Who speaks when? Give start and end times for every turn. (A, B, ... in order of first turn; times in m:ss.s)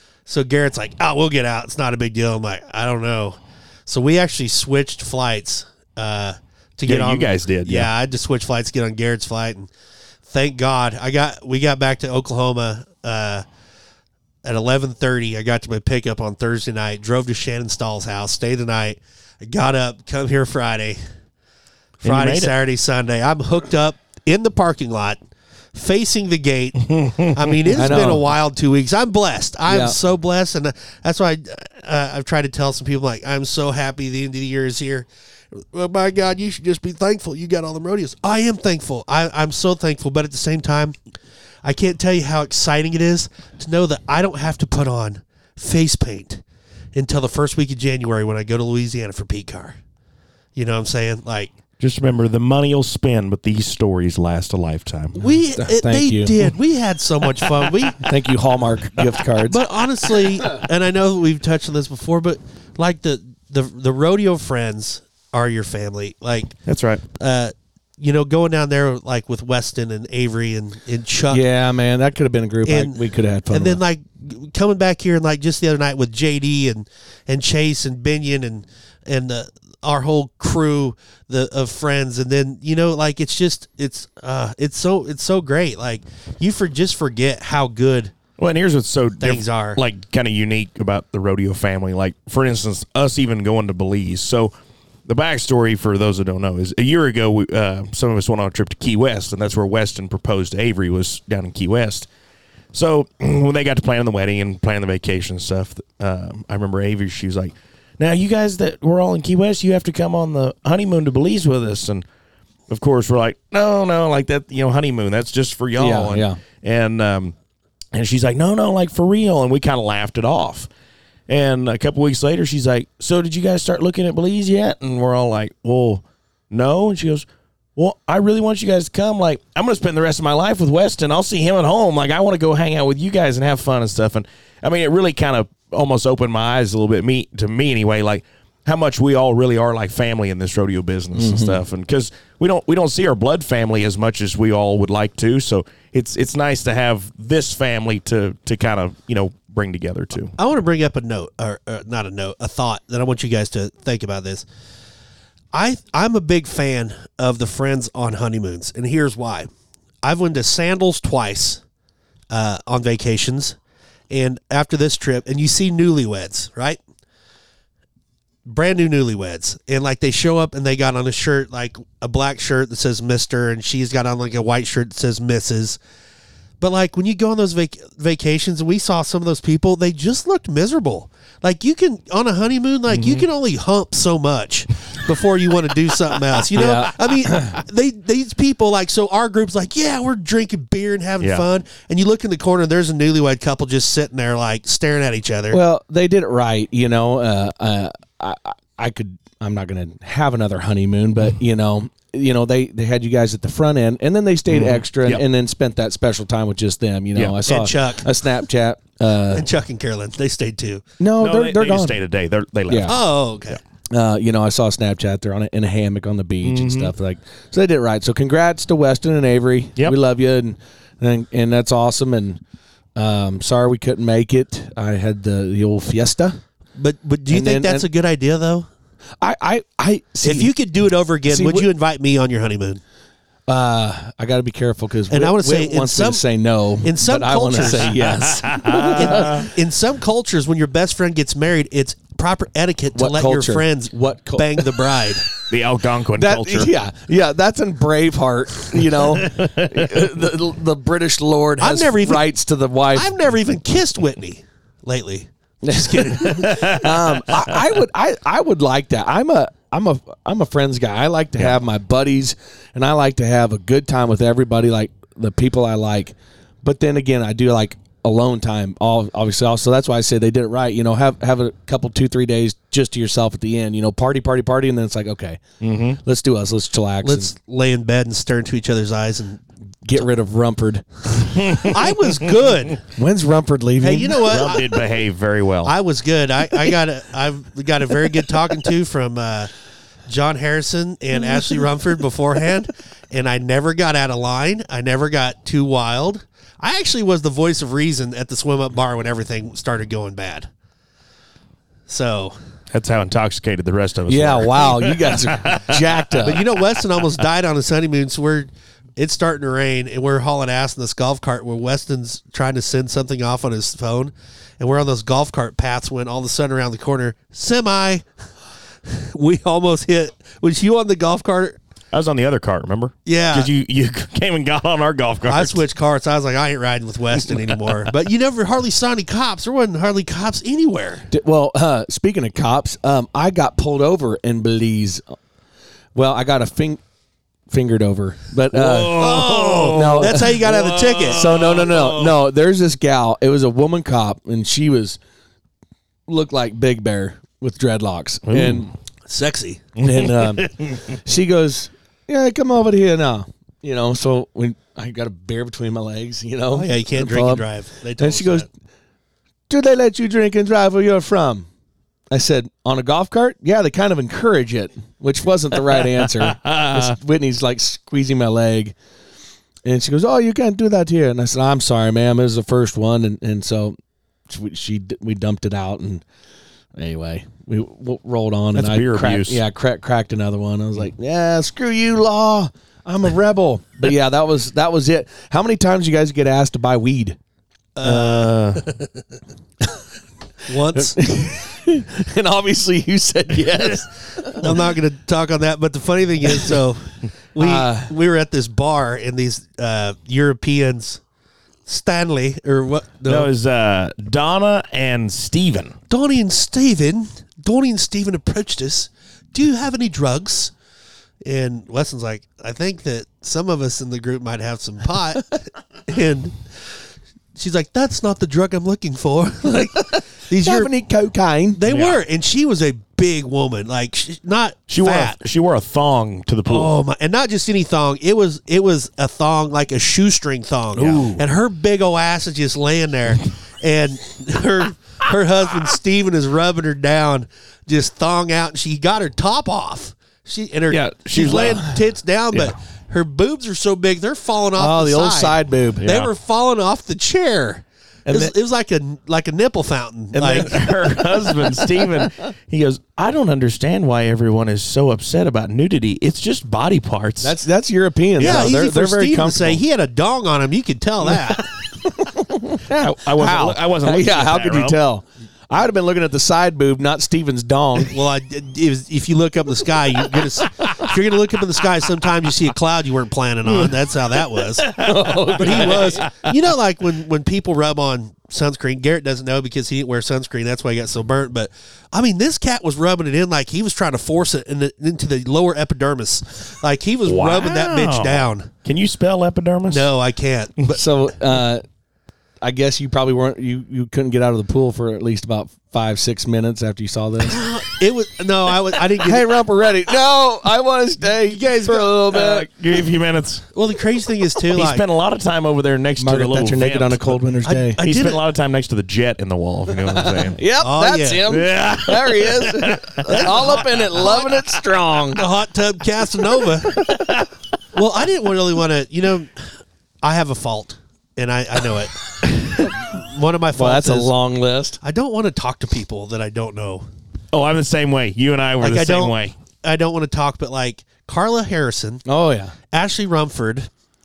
0:00.2-0:09.7 A
0:06.9-0:07.9 B
0:10.3-0:13.4 A
0:14.4-0:21.0 A
0:22.0-0:22.5 B
0:22.0-0:25.2 A
0:25.7-0:41.0 A
0:26.9-0:27.2 B
0:27.7-0:28.2 C
0:29.7-0:30.0 C
0:41.6-0:46.4 A
0:46.9-0:49.8 A
0:50.6-0:51.5 A
0:51.8-0:55.2 B
0:55.2-0:58.0 A
0:55.2-0:56.3 C
0:58.0-0:59.6 C
0:59.4-1:06.6 A
1:06.6-1:07.0 B
1:07.2-1:11.4 A
1:11.3-1:13.8 C
1:12.6-1:28.1 A
1:28.4-1:34.5 B
1:29.2-1:29.8 A
1:35.0-1:42.1 B
1:42.7-1:52.0 B
1:52.7-1:57.3 B
1:55.8-1:56.4 C
1:57.9-2:00.7 B
2:01.3-2:30.3 B
2:21.1-2:21.6 C
2:30.4-2:34.4 A
2:35.5-2:39.5 A
2:40.0-2:41.6 A
2:42.3-2:43.6 A
2:44.1-2:46.8 A
2:48.4-2:55.8 A
2:56.6-3:15.6 A
3:02.9-3:03.2 B
3:06.5-3:07.6 C
3:15.5-3:29.5 C
3:24.5-3:25.2 B
3:27.4-3:28.1 A
3:29.3-3:30.8 A
3:31.0-3:32.0 C
3:31.2-3:33.0 B
3:32.7-3:33.0 C
3:32.8-3:33.6 A
3:33.9-3:42.4 C
3:36.4-3:36.9 B
3:42.9-3:46.4 C
3:46.8-3:48.7 A
3:47.3-3:47.9 C
3:49.2-3:50.5 C
3:50.2-3:52.8 A
3:51.2-3:51.7 C
3:53.5-3:59.5 C
3:55.1-3:56.2 A
3:56.8-3:58.0 A
3:58.0-3:59.4 B
3:58.9-4:05.2 A
4:02.9-4:04.8 C
4:05.4-4:06.7 B
4:06.1-4:13.1 C
4:09.1-4:10.0 B
4:11.6-4:12.3 A
4:12.9-4:16.8 A
4:15.6-4:35.4 C
4:16.4-4:17.5 B
4:35.6-4:36.0 B
4:36.0-4:37.3 C
4:37.0-4:39.4 A
4:39.8-4:41.5 C
4:41.3-4:41.8 B
4:41.6-4:42.8 A
4:42.9-4:44.5 C
4:43.8-4:44.8 A
4:44.3-4:45.7 B
4:45.6-4:49.5 A
4:50.1-5:00.5 A
5:01.9-5:02.4 A
5:02.7-5:06.0 B
5:04.1-5:06.5 C
5:06.2-5:18.0 A
5:18.8-5:21.6 A
5:21.9-5:25.6 B
5:23.0-5:23.5 A
5:25.3-5:31.1 A
5:27.3-5:27.8 B
5:31.1-5:35.1 C
5:35.9-5:36.8 C
5:37.5-5:39.1 C
5:38.5-5:42.2 B
5:39.0-5:41.3 A
5:39.7-5:40.4 C
5:41.1-5:45.0 C
5:46.1-5:48.7 C
5:48.2-5:48.7 B
5:49.1-5:49.7 A
5:49.8-5:57.4 C
5:49.8-5:50.8 B
5:56.5-5:58.5 A
5:58.0-5:58.5 C
5:59.5-6:01.5 C
6:02.1-6:08.8 C
6:06.2-6:06.9 B
6:09.6-6:13.8 C
6:14.3-6:16.0 C
6:16.8-6:27.2 C
6:18.5-6:19.4 B
6:27.8-6:28.9 A
6:27.8-6:28.6 B
6:30.5-6:31.0 A
6:30.7-6:34.6 C
6:34.1-6:41.0 A
6:36.3-6:36.6 C
6:37.4-6:37.9 C
6:41.6-6:43.3 A
6:43.1-6:45.8 B
6:45.9-6:50.5 A
6:51.2-6:56.4 A
6:57.3-7:00.7 A
7:00.4-7:01.6 C
7:01.6-7:05.2 A
7:01.7-7:02.0 B
7:04.7-7:06.7 B
7:06.4-7:31.3 A
7:10.8-7:11.2 B
7:20.7-7:21.7 B
7:21.2-7:21.7 C
7:24.6-7:26.0 C
7:30.1-7:37.4 B
7:37.2-7:39.6 C
7:38.2-7:38.5 B
7:38.2-7:41.5 A
7:41.6-7:48.0 C
7:42.7-7:44.8 B
7:47.8-7:54.8 A
7:54.6-7:56.1 B
7:54.7-7:56.0 C
7:55.4-8:08.5 A
8:07.0-8:09.9 B
8:09.7-8:10.8 A
8:10.7-8:11.6 C
8:12.4-8:17.4 C
8:17.2-8:19.3 A
8:19.0-8:22.5 C
8:21.3-8:21.9 A
8:22.1-8:23.4 B
8:23.5-8:24.8 A
8:24.5-8:27.2 B
8:26.0-8:27.8 C
8:27.4-8:28.2 A
8:27.8-8:30.4 B
8:29.7-8:35.2 C
8:30.6-8:31.2 A
8:31.3-8:33.5 B
8:33.0-8:34.0 A
8:35.1-8:36.8 A
8:36.7-8:37.0 C
8:36.8-8:37.2 B
8:37.7-8:39.3 A
8:40.0-8:42.0 A
8:42.8-8:44.1 A
8:43.6-8:44.8 C
8:44.8-8:46.9 A
8:47.3-8:49.3 B
8:48.6-8:52.0 A
8:52.0-8:52.5 C
8:52.7-8:53.7 A